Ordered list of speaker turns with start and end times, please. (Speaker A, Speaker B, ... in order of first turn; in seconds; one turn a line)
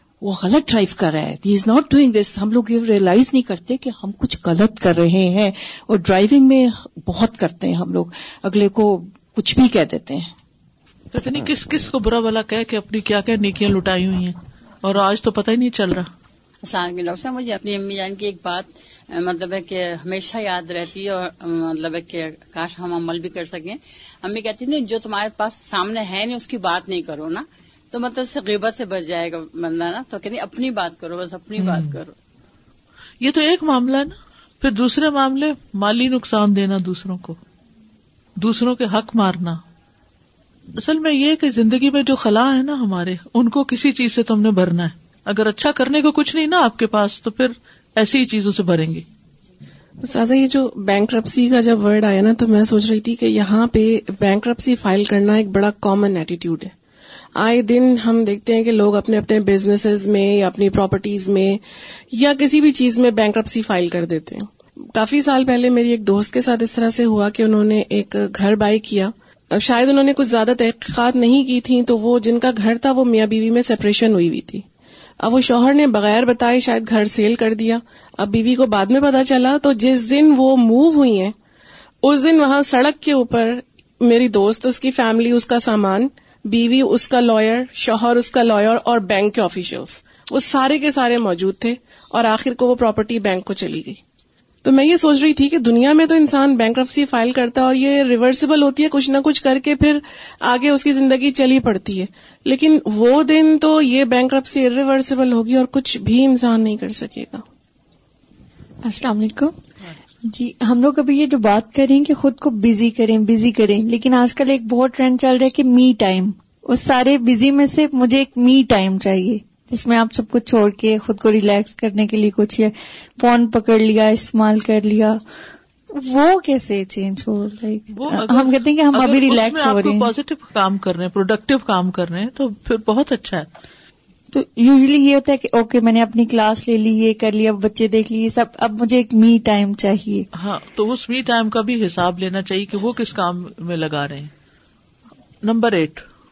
Speaker A: 0.2-10.3
Speaker B: 11.1-16.1
Speaker C: 16.6-32.1
Speaker B: 31.6-31.9
Speaker B: 33.2-37.4
Speaker B: 38.4-39.6
Speaker B: 40.8-49.0
Speaker D: 50.0-56.7
Speaker D: 57.4-61.6
Speaker D: 62.1-74.7
Speaker D: 75.2-81.3
Speaker D: 82.0-94.0
Speaker D: 94.6-107.4
Speaker E: 108.8-109.5
Speaker E: 110.2-125.2
Speaker E: 125.9-130.1
Speaker B: 127.9-133.5
Speaker E: 134.3-140.3
Speaker B: 140.3-144.3
Speaker B: 145.4-146.1